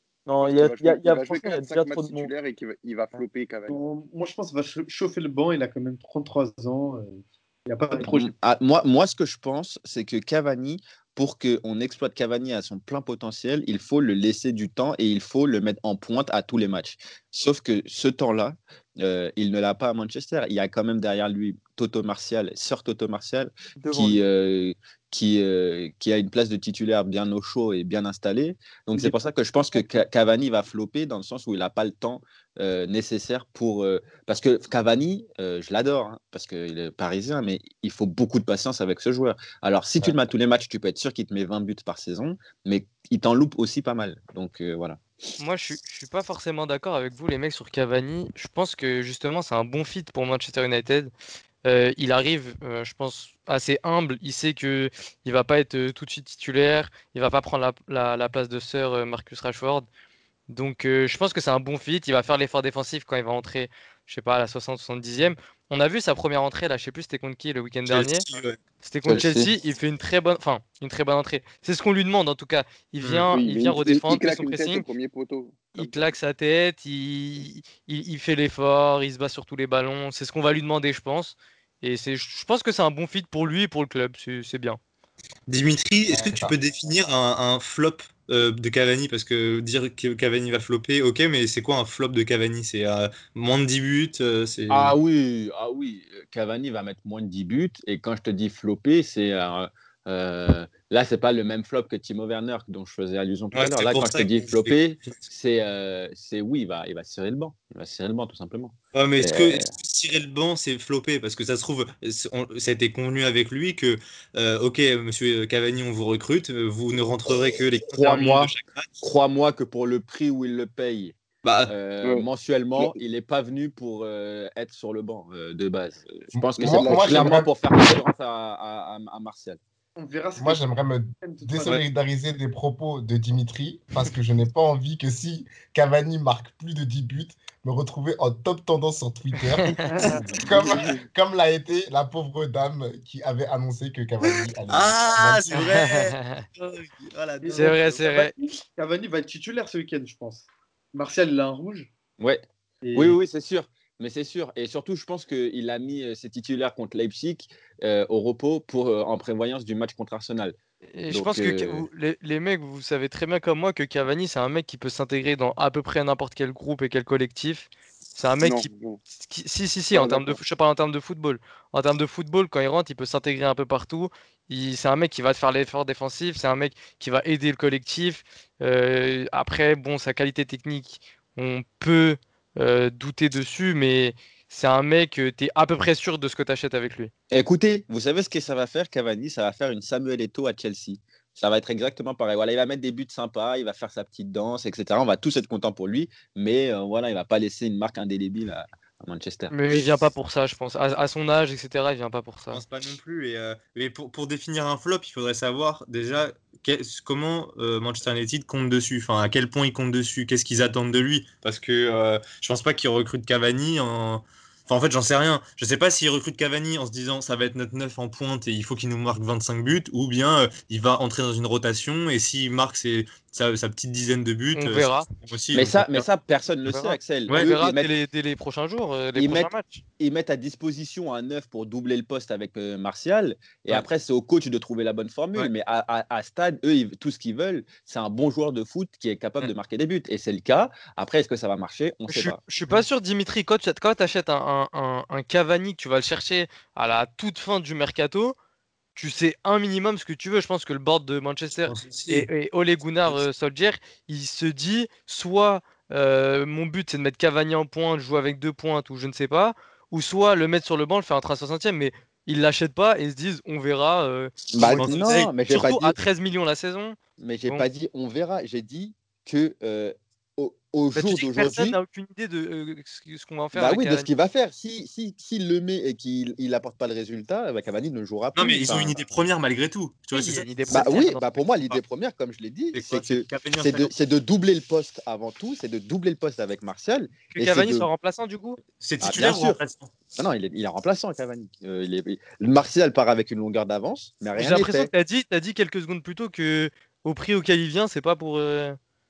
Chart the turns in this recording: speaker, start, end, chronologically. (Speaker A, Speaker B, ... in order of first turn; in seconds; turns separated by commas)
Speaker A: 0.3-2.3, Speaker B: 0.4-3.8, Speaker C: 3.7-8.3, Speaker D: 7.9-45.0, Speaker A: 23.8-24.2, Speaker A: 29.0-29.9, Speaker E: 45.4-51.1, Speaker E: 51.6-59.9, Speaker E: 60.5-68.2, Speaker F: 67.9-68.6, Speaker E: 68.8-74.9, Speaker D: 69.1-69.5, Speaker F: 73.0-73.3, Speaker B: 73.3-76.1, Speaker E: 75.8-84.8, Speaker F: 85.5-95.0, Speaker G: 86.1-86.5, Speaker D: 94.7-109.7, Speaker F: 103.5-105.2, Speaker F: 108.9-118.9, Speaker D: 118.0-118.5, Speaker D: 119.0-121.2, Speaker F: 121.4-121.7, Speaker D: 121.7-129.6, Speaker B: 122.0-123.0, Speaker G: 126.3-127.9, Speaker B: 126.6-127.5, Speaker C: 130.0-130.7, Speaker G: 130.4-139.9, Speaker C: 131.2-131.8, Speaker C: 139.9-140.4, Speaker G: 140.4-145.7, Speaker B: 140.5-140.9, Speaker F: 144.2-148.0, Speaker E: 145.5-146.4, Speaker C: 147.4-151.9, Speaker E: 147.6-148.3, Speaker D: 152.2-160.6, Speaker C: 152.8-153.2, Speaker E: 160.9-187.1, Speaker D: 161.1-161.9, Speaker B: 168.4-169.0, Speaker B: 169.9-170.4, Speaker D: 187.3-199.6, Speaker E: 199.5-202.6, Speaker F: 202.5-226.1, Speaker E: 224.6-225.1, Speaker D: 225.5-227.9, Speaker E: 226.7-229.8, Speaker F: 227.3-227.6, Speaker D: 229.2-242.4, Speaker E: 242.1-248.3, Speaker E: 249.0-267.6, Speaker F: 251.7-252.3, Speaker D: 264.5-266.0, Speaker F: 264.5-265.6, Speaker D: 267.2-271.8, Speaker E: 270.9-274.1, Speaker D: 273.6-279.0, Speaker F: 278.4-281.0, Speaker E: 280.1-281.5, Speaker D: 280.7-287.9, Speaker F: 282.7-283.9, Speaker E: 287.3-288.6, Speaker F: 288.8-289.9, Speaker D: 289.0-289.6, Speaker D: 290.2-294.9, Speaker E: 294.4-298.8